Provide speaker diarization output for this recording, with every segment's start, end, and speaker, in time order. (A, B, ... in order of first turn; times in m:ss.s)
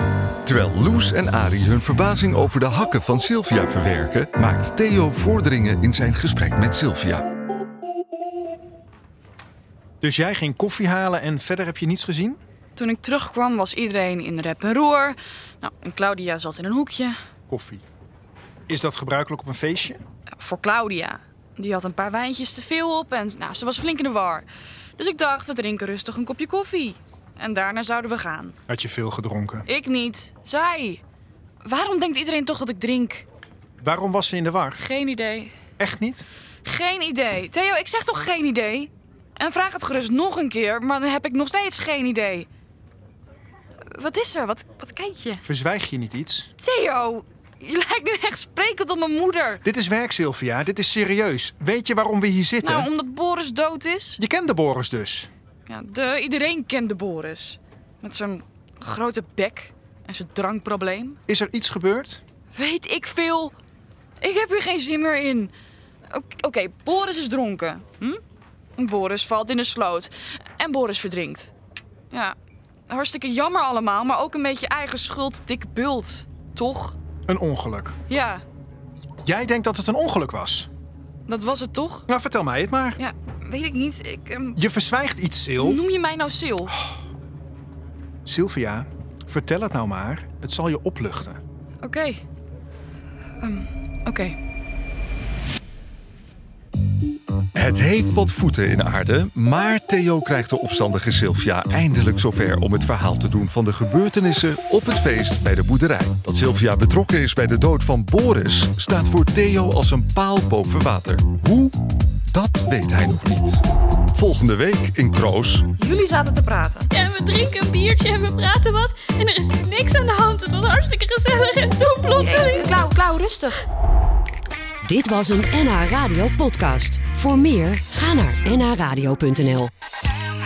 0:00.4-0:07.2 A
0:10.0-0:12.4 B
0:12.8-0:17.2 C
0:17.5-0:17.8 B
0:18.7-0:20.0 B
0:20.4-0:24.4 C
0:25.0-0:28.5 C
0:28.7-0:29.6 B
0:29.7-0:31.0 C
0:31.6-0:33.2 C
0:33.8-0:34.8 B
0:34.7-0:35.5 C
0:35.8-0:36.3 B
0:36.6-0:42.5 C
0:43.9-0:45.4 C
0:45.4-0:46.5 B
0:46.6-0:49.6 C
0:49.6-0:52.9 B
0:52.6-0:54.2 C
0:54.2-0:55.3 B
0:55.7-1:01.2 C
1:01.3-1:02.2 B
1:02.5-1:03.5 C
1:04.2-1:05.5 C
1:06.1-1:08.2 C
1:08.8-1:11.5 C
1:12.1-1:12.4 C
1:12.9-1:17.0 C
1:17.3-1:18.0 B
1:18.1-1:18.4 C
1:19.2-1:20.7 B
1:21.3-1:22.1 C
1:22.1-1:23.0 B
1:23.0-1:24.6 C
1:24.6-1:25.8 B
1:25.6-1:26.8 C
1:28.2-1:31.4 B
1:31.8-1:32.2 C
1:33.4-1:34.4 C
1:37.5-1:51.8 A
1:52.3-1:53.6 A
1:54.1-1:55.7 A
1:55.8-1:56.9 C
1:56.9-2:02.7 D
2:02.1-2:03.6 C
2:04.8-2:09.7 E